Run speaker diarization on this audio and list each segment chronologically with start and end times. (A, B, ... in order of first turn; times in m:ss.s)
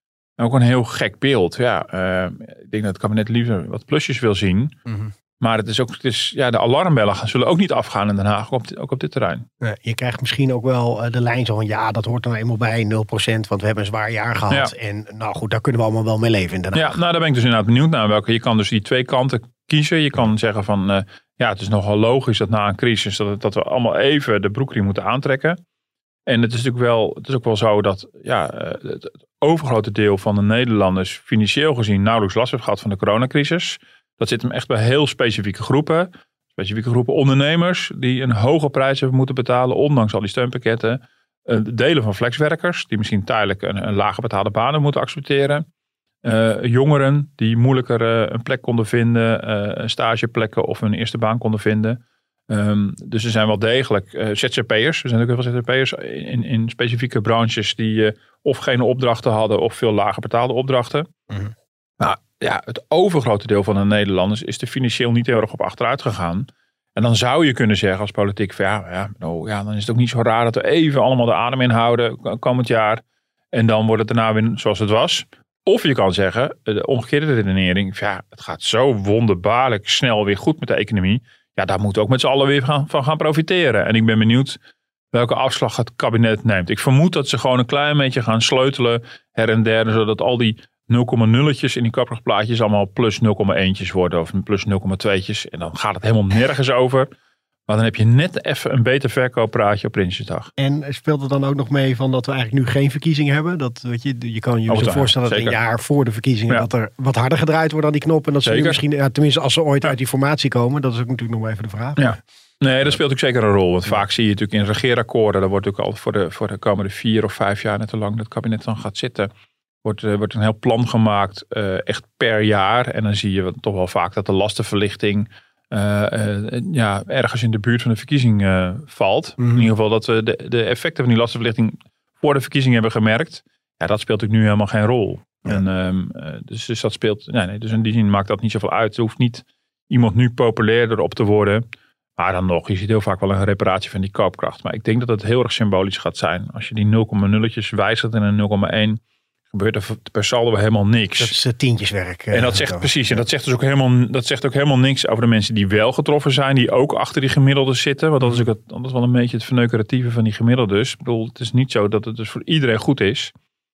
0:00.4-0:04.7 A
0:04.8-0:05.1 B
0:05.4-0:09.5 A
0:09.6-0:17.0 B
0:16.7-0:25.6 A
0:26.3-0:45.6 A
0:46.2-1:01.1 A
1:02.0-1:24.6 A
1:25.1-1:37.1 A
1:37.7-1:40.5 A
1:40.6-1:52.2 B
1:44.7-1:45.6 A
1:48.4-1:48.8 A
1:52.0-1:59.3 A
1:59.8-2:21.6 A
2:09.4-2:09.7 B
2:22.2-2:31.3 A
2:31.2-2:33.2 B
2:32.3-2:43.3 A